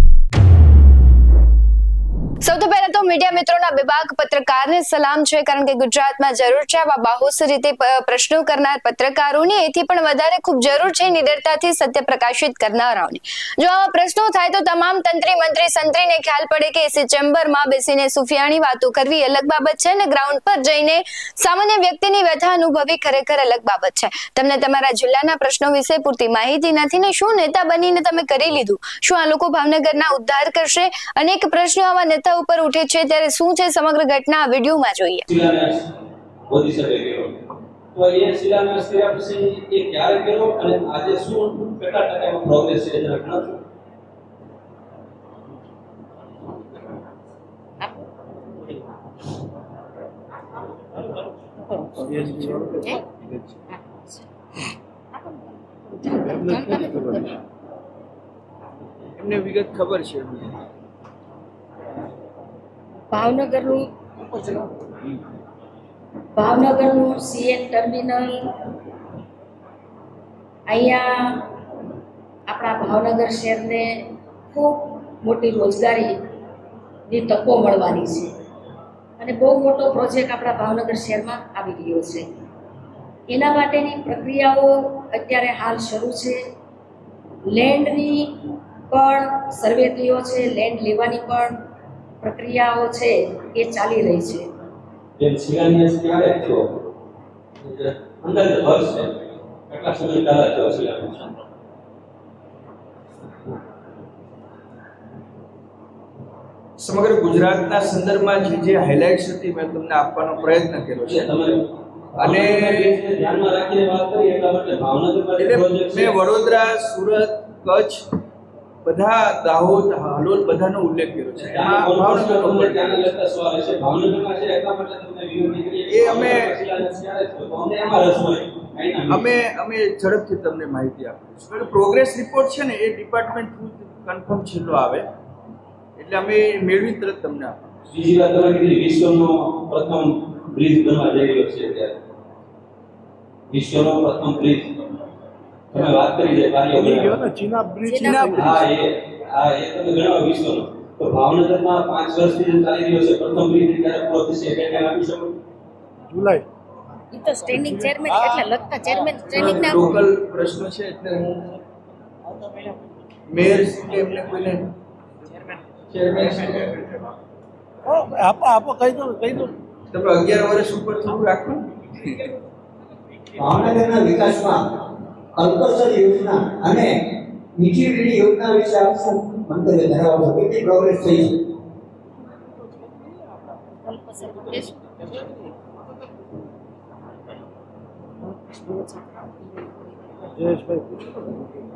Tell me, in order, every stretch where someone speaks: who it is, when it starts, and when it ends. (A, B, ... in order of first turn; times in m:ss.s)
0:02.4-0:35.2 A
0:35.3-0:35.8 B
0:36.5-0:37.4 B
0:37.9-0:43.5 B
0:52.0-0:53.0 C
0:52.0-0:52.8 D
0:53.7-0:54.2 C
0:55.9-0:57.4 C
0:56.2-0:57.3 D
0:59.2-1:00.6 E
1:03.1-1:05.0 C
1:06.3-1:08.7 C
1:10.7-1:11.5 C
1:12.5-1:16.2 C
1:17.1-1:18.3 C
1:19.2-1:22.3 C
1:23.3-1:26.4 C
1:27.5-1:31.5 C
1:32.2-1:34.5 C
1:35.2-1:36.6 B
1:37.6-1:39.2 B
1:39.7-1:41.3 B
1:46.8-1:51.3 E
1:51.0-1:51.6 B
1:52.2-1:56.4 B
1:52.2-1:53.0 E
1:55.4-1:58.0 E
1:58.8-2:03.0 E
2:01.4-2:09.3 B
2:05.9-2:06.6 E
2:09.1-2:15.0 E
2:16.0-2:17.6 E
2:17.9-2:22.0 B
2:23.5-2:24.8 B
2:25.7-2:27.2 B
2:26.7-2:28.6 D
2:27.8-2:28.3 C
2:28.0-2:28.5 E
2:28.1-2:35.3 B
2:36.1-2:36.4 D
2:37.1-2:40.0 C
2:38.0-2:38.4 E
2:39.3-2:41.5 E
2:43.3-2:44.7 E
2:45.9-2:47.1 E
2:47.8-2:49.5 D
2:49.9-2:52.2 E
2:53.4-2:54.6 F
2:55.4-2:56.9 F
2:57.6-3:01.3 F
3:03.9-3:04.7 C
3:10.4-3:11.4 D